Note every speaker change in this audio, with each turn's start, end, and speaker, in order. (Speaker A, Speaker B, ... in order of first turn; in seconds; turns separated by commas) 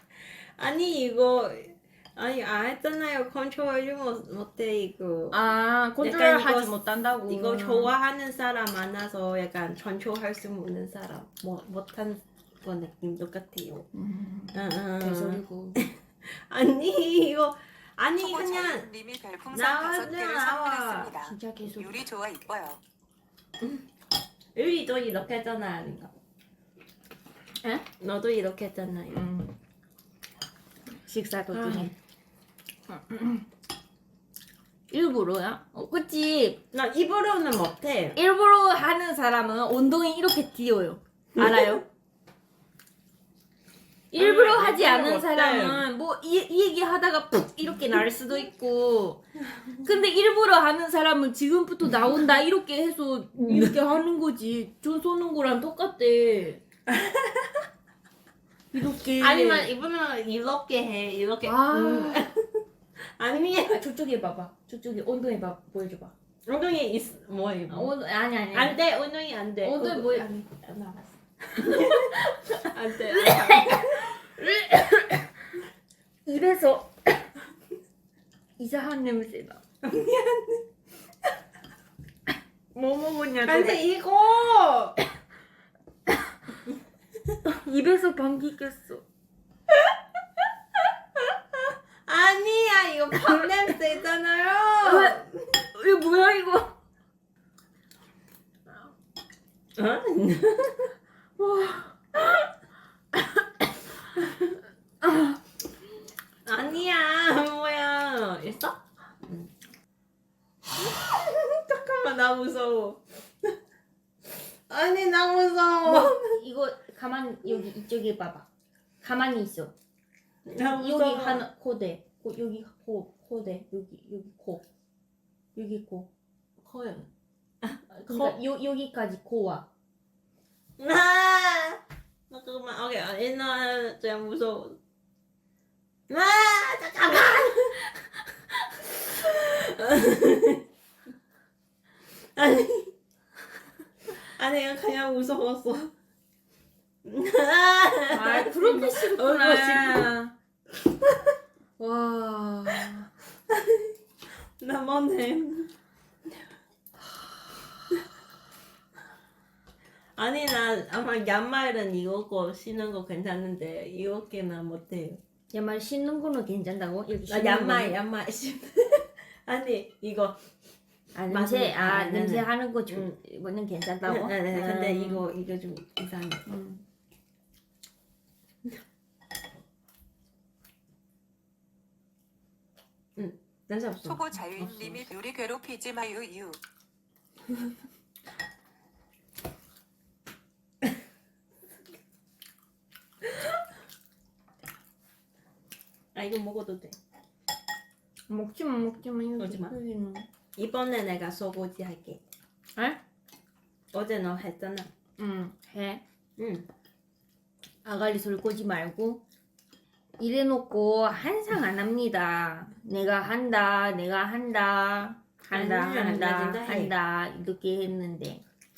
Speaker A: 0.2-5.4, Speaker B: 5.3-7.9, Speaker A: 6.0-6.7, Speaker A: 7.3-13.9, Speaker B: 13.9-15.8, Speaker A: 14.5-18.9, Speaker C: 18.2-22.8, Speaker A: 19.5-21.1, Speaker B: 21.2-22.0, Speaker A: 23.6-23.9, Speaker A: 24.5-26.1, Speaker A: 28.0-29.2, Speaker B: 29.1-29.6, Speaker B: 31.0-31.9, Speaker A: 31.5-31.9, Speaker B: 32.9-33.4, Speaker B: 34.9-36.6, Speaker A: 36.7-38.2, Speaker B: 38.1-41.8, Speaker A: 41.3-41.8, Speaker B: 44.1-49.2, Speaker A: 44.1-45.9, Speaker B: 49.8-56.6, Speaker A: 53.5-53.8, Speaker A: 56.9-57.6, Speaker B: 58.7-59.7, Speaker A: 59.2-63.8, Speaker B: 61.4-62.3, Speaker B: 63.7-66.1, Speaker A: 66.4-67.9, Speaker B: 67.7-68.8, Speaker A: 68.5-74.2, Speaker B: 69.6-70.3, Speaker B: 71.6-75.3, Speaker B: 76.2-77.2, Speaker B: 78.6-79.6, Speaker A: 79.8-80.6, Speaker B: 82.7-83.8, Speaker A: 83.4-85.0, Speaker B: 87.4-89.0, Speaker A: 91.2-95.4, Speaker B: 94.8-95.2, Speaker B: 95.7-96.7, Speaker A: 99.8-100.9, Speaker B: 101.4-102.5, Speaker B: 103.1-103.5, Speaker B: 105.0-105.4, Speaker A: 106.4-109.5, Speaker A: 110.8-113.5, Speaker A: 114.7-116.4, Speaker B: 115.8-118.5, Speaker B: 119.0-119.7, Speaker A: 120.4-121.5, Speaker B: 120.6-124.6, Speaker B: 125.5-126.1, Speaker A: 126.6-127.1, Speaker A: 127.6-128.4, Speaker B: 127.9-129.7, Speaker A: 130.8-134.8, Speaker A: 136.1-137.9, Speaker A: 138.8-140.6, Speaker A: 142.3-142.9, Speaker A: 144.2-145.9, Speaker A: 147.0-150.1, Speaker B: 148.1-150.3, Speaker A: 151.0-151.3, Speaker B: 151.8-153.1, Speaker A: 153.5-153.9, Speaker A: 154.6-155.7, Speaker A: 160.2-165.2, Speaker B: 165.5-168.0, Speaker A: 167.3-170.4, Speaker B: 171.1-175.2, Speaker A: 171.3-173.1, Speaker A: 174.0-176.4, Speaker B: 176.4-176.8, Speaker A: 183.2-185.1, Speaker C: 184.0-186.6, Speaker A: 196.1-196.9, Speaker B: 198.3-200.3, Speaker A: 199.4-199.7, Speaker A: 200.6-202.2, Speaker B: 202.8-203.0, Speaker A: 203.9-204.9, Speaker B: 205.2-206.0, Speaker A: 206.4-206.7, Speaker B: 207.8-209.2, Speaker B: 210.2-218.4, Speaker A: 215.5-216.9